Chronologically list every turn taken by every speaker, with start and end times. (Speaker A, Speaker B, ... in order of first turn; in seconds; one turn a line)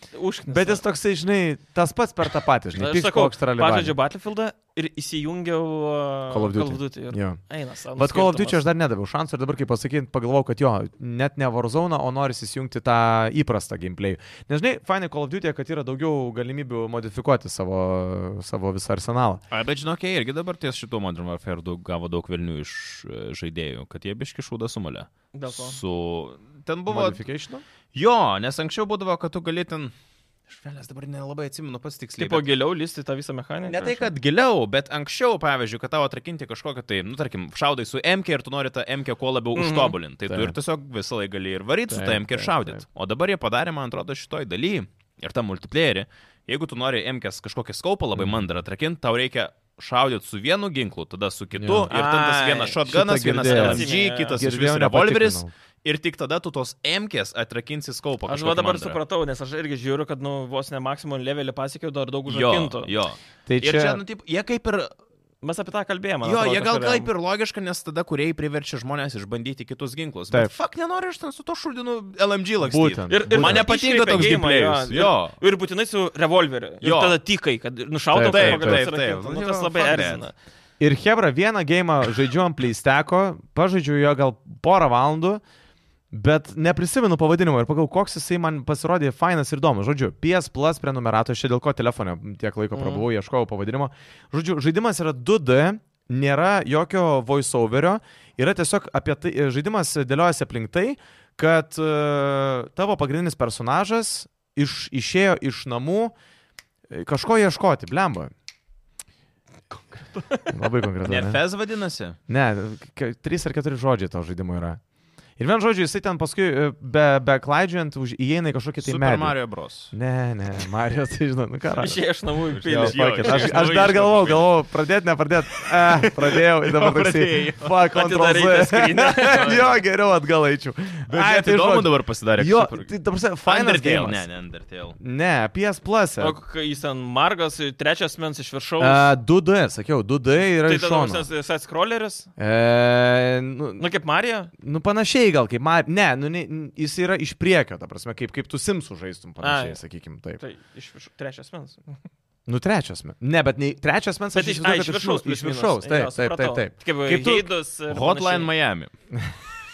Speaker A: 0.1-0.8
Speaker B: 0.5-4.0
Speaker A: 2.8-8.6
Speaker B: 6.3-7.4
Speaker B: 7.9-19.4
Speaker C: 19.5-27.2
Speaker A: 25.3-25.8
Speaker B: 26.9-27.6
Speaker C: 27.9-29.9
Speaker C: 30.5-32.4
Speaker A: 32.2-34.1
Speaker C: 33.7-59.0
Speaker A: 39.5-40.0
Speaker B: 40.3-40.5
Speaker B: 41.9-42.8
Speaker B: 48.1-48.4
Speaker B: 51.5-51.9
Speaker A: 51.9-52.8
Speaker B: 52.9-55.5
Speaker A: 53.4-54.4
Speaker A: 58.3-62.9
Speaker C: 62.3-64.9
Speaker B: 63.5-64.0
Speaker A: 65.4-67.1
Speaker C: 66.2-75.3
Speaker B: 72.6-73.7
Speaker A: 73.1-80.3
Speaker C: 76.8-77.2
Speaker B: 78.1-78.9
Speaker C: 78.2-80.2
Speaker B: 80.8-85.4
Speaker B: 86.1-106.1
Speaker A: 92.7-93.0
Speaker B: 106.9-108.3
Speaker A: 110.0-110.5
Speaker B: 110.5-111.4
Speaker C: 111.0-112.2
Speaker B: 112.3-114.8
Speaker B: 115.4-119.4
Speaker C: 118.8-119.9
Speaker B: 119.9-122.0
Speaker A: 121.8-123.8
Speaker C: 122.5-124.5
Speaker B: 122.6-134.2
Speaker C: 125.9-127.7
Speaker A: 127.9-129.7
Speaker C: 131.1-132.9
Speaker C: 133.4-135.0
Speaker B: 135.0-136.4
Speaker A: 136.2-139.1
Speaker B: 138.8-141.3
Speaker A: 140.6-142.3
Speaker B: 142.4-143.8
Speaker A: 143.8-144.5
Speaker B: 144.6-150.4
Speaker A: 149.4-149.8
Speaker A: 150.4-152.0
Speaker B: 152.5-157.4
Speaker A: 154.3-158.5
Speaker C: 157.9-158.9